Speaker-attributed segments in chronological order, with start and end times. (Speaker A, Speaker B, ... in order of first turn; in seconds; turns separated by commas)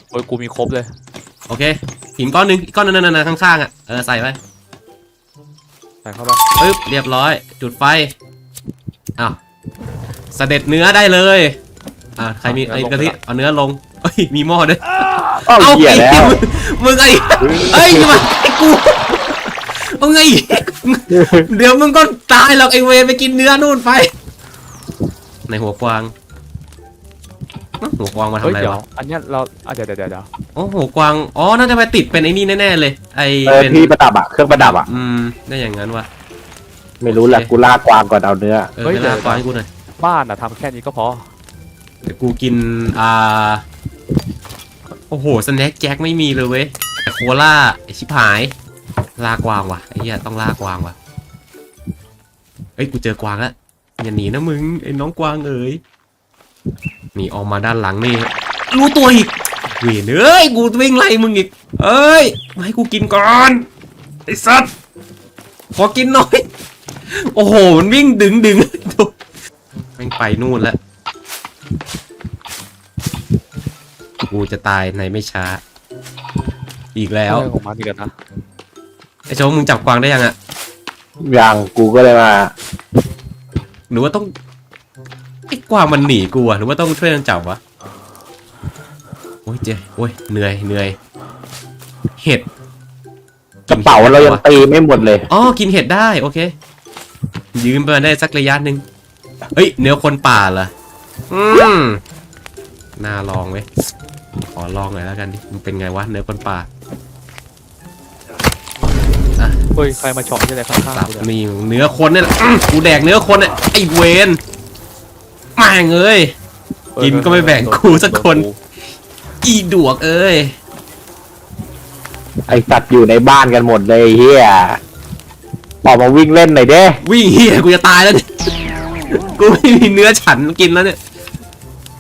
Speaker A: 0.1-0.9, Speaker B: 1.5-4.4, Speaker A: 6.0-6.4, Speaker B: 6.6-8.1, Speaker B: 10.3-11.6, Speaker B: 12.2-24.1, Speaker A: 12.4-13.2, Speaker C: 15.4-16.4, Speaker C: 17.5-18.1, Speaker C: 21.1-21.5, Speaker B: 25.5-26.1, Speaker B: 27.8-28.8, Speaker A: 28.4-30.3, Speaker B: 30.6-33.9, Speaker C: 33.5-34.9, Speaker B: 34.5-36.1, Speaker C: 37.0-38.7, Speaker B: 37.1-37.5, Speaker B: 38.7-39.7, Speaker A: 38.8-39.5, Speaker A: 40.0-41.3, Speaker B: 42.0-43.6, Speaker B: 45.0-48.5, Speaker B: 49.2-51.0, Speaker B: 52.8-55.8, Speaker B: 57.1-63.7, Speaker B: 64.3-64.7, Speaker B: 65.8-66.5, Speaker B: 67.1-69.2, Speaker B: 70.0-70.8, Speaker B: 74.3-75.6, Speaker B: 77.0-77.5, Speaker A: 77.3-78.1, Speaker B: 79.3-80.3, Speaker C: 81.2-82.5, Speaker B: 83.9-84.3, Speaker B: 85.5-87.6, Speaker B: 89.5-91.0, Speaker B: 92.2-92.5, Speaker B: 93.7-94.4, Speaker C: 93.7-95.3, Speaker B: 95.3-96.5, Speaker B: 97.5-98.8, Speaker B: 99.5-100.7, Speaker B: 101.3-102.0, Speaker B: 103.0-103.7, Speaker B: 104.4-106.7, Speaker B: 109.4-109.6, Speaker A: 109.8-111.3, Speaker B: 110.9-114.4, Speaker B: 115.6-116.3, Speaker A: 117.0-118.6, Speaker B: 117.0-118.5, Speaker B: 119.4-120.5, Speaker C: 122.5-124.8, Speaker C: 125.8-127.0, Speaker B: 127.0-128.3, Speaker B: 129.1-131.0